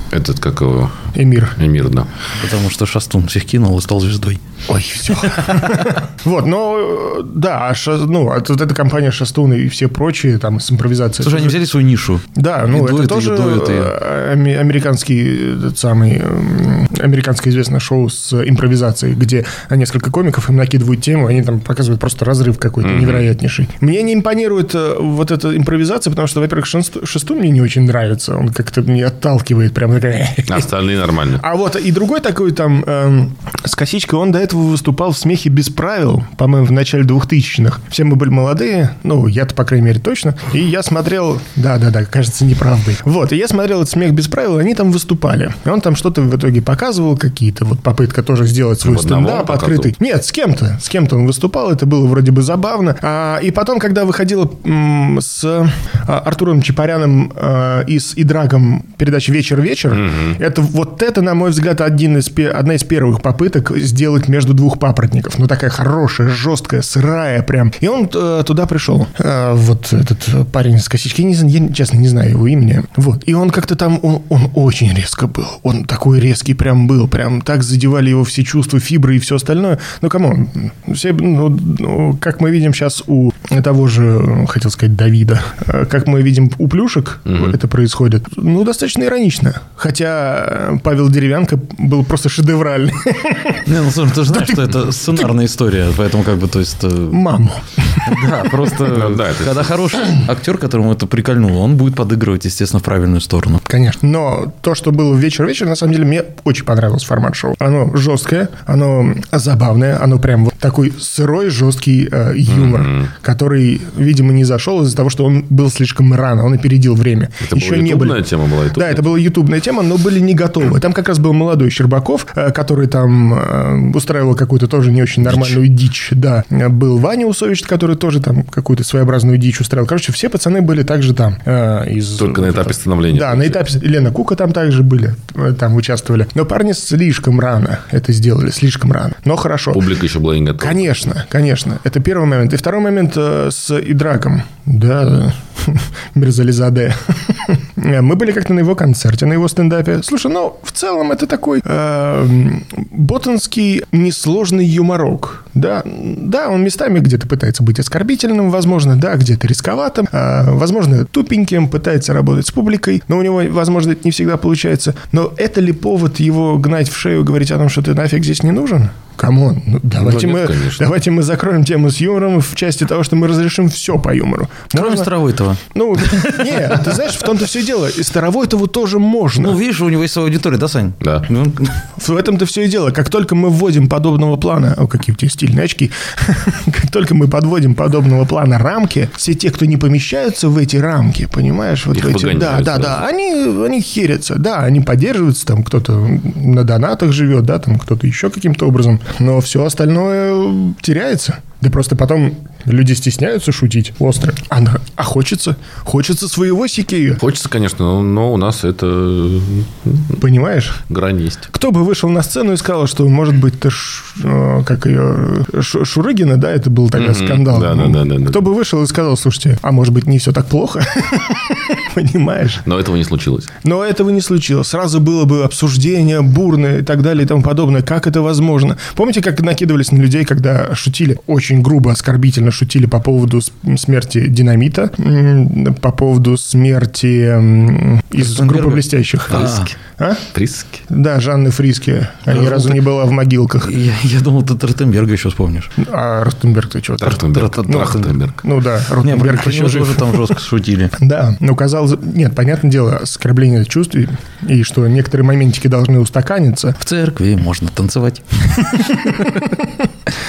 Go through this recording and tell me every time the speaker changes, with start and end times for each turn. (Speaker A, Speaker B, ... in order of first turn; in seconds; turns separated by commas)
Speaker A: 0.1-1.1, Speaker B: 1.1-1.6, Speaker A: 1.6-2.1, Speaker C: 2.4-4.4, Speaker B: 4.7-11.6, Speaker C: 5.2-5.9, Speaker C: 11.2-13.9, Speaker B: 12.3-30.7, Speaker A: 22.8-23.3, Speaker A: 30.5-31.4, Speaker B: 31.3-93.7, Speaker A: 48.8-49.9, Speaker A: 59.9-60.4, Speaker A: 87.3-87.6, Speaker C: 93.7-97.2, Speaker B: 94.3-95.3, Speaker B: 97.1-98.7, Speaker C: 98.0-103.7, Speaker A: 98.9-99.7, Speaker B: 103.7-139.8, Speaker A: 112.5-113.1, Speaker A: 117.4-119.1, Speaker A: 125.3-125.6, Speaker A: 132.2-133.6, Speaker A: 139.7-140.9, Speaker B: 140.6-175.1, Speaker A: 169.9-170.9, Speaker C: 174.7-177.1, Speaker B: 175.7-179.6, Speaker C: 179.4-181.8, Speaker B: 182.0-207.2, Speaker A: 191.9-193.0, Speaker A: 207.2-210.2, Speaker B: 210.2-210.8, Speaker A: 210.9-211.4, Speaker B: 211.5-222.6, Speaker A: 216.9-218.4, Speaker A: 222.6-223.5, Speaker B: 223.6-240.2, Speaker C: 238.2-239.7, Speaker A: 240.3-240.8, Speaker B: 240.9-243.8, Speaker C: 242.3-242.8, Speaker C: 243.6-245.7, Speaker B: 245.8-250.3, Speaker A: 247.0-248.4, Speaker C: 247.3-248.2, Speaker C: 249.0-250.9, Speaker B: 251.0-256.8, Speaker C: 256.8-259.3, Speaker B: 258.6-259.8